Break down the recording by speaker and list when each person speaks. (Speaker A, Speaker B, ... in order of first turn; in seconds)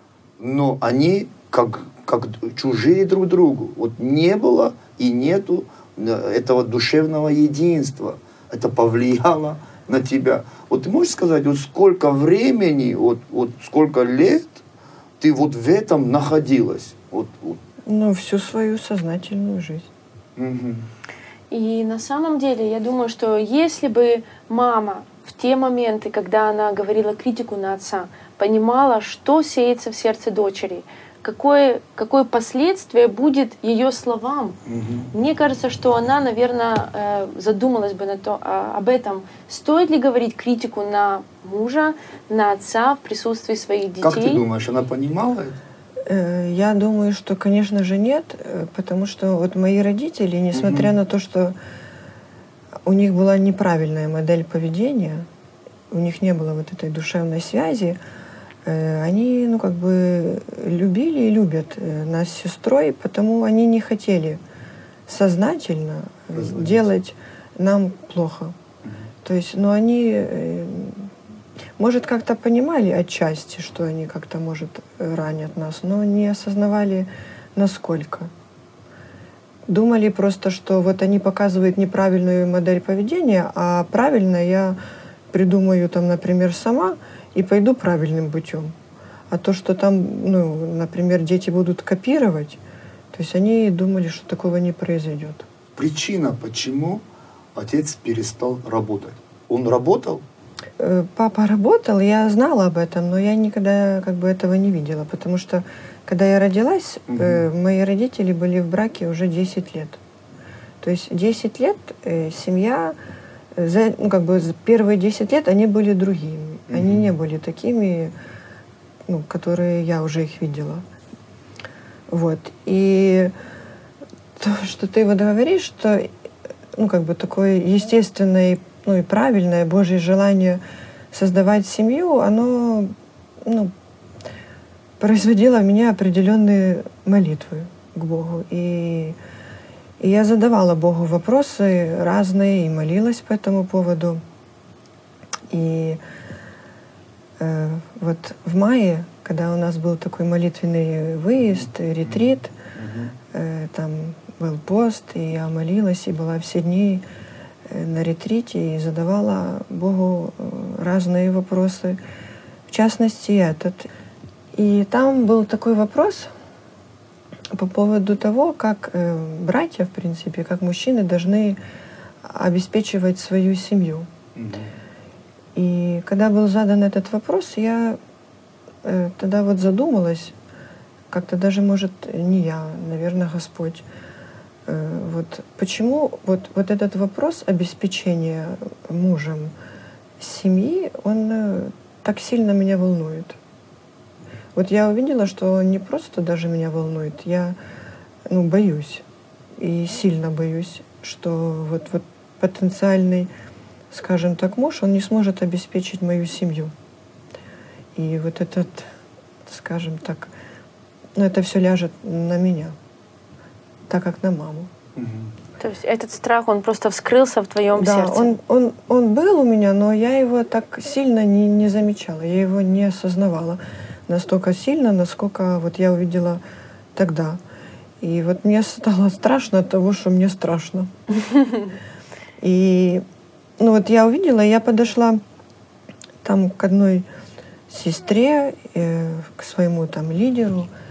Speaker A: 0.4-14.6, 15.2-17.6, 20.4-20.9, 34.7-35.1, 44.0-45.6, 50.5-50.9, 66.3-66.9, 95.8-97.0, 97.5-100.2, 107.1-107.5, 116.7-117.1, 151.4-153.1, 174.3-174.7, 214.9-215.3
Speaker B: 17.9-19.9, 46.1-51.5, 52.9-55.3, 55.9-58.0, 58.6-64.4, 65.1-68.5, 69.2-71.1, 71.8-78.3, 79.7-84.8, 85.3-88.7, 89.3-92.6, 93.1-95.5, 100.8-110.0, 110.8-113.0, 113.5-118.1, 119.1-120.8, 122.1-123.3, 124.4-126.1, 126.7-130.6, 131.1-132.9, 133.4-133.7, 135.0-139.2, 140.0-144.2, 145.5-146.0, 147.4-152.5, 153.3-157.0, 157.7-162.0, 162.7-163.9, 164.5-166.3, 167.5-171.6, 172.2-174.1, 175.6-178.0, 178.8-180.3, 181.1-183.8, 184.7-189.5, 190.2-193.4, 194.5-197.6, 198.3-199.0, 199.6-203.3, 203.9-206.7, 207.9-208.9, 209.4-210.3, 211.2-212.8, 213.9-214.7, 217.7-226.4, 226.9-227.4, 228.0-230.9, 232.4-233.0, 233.6-235.2, 236.2-237.1, 237.7-240.7
Speaker C: 21.5-34.6, 35.1-44.4, 215.6-218.3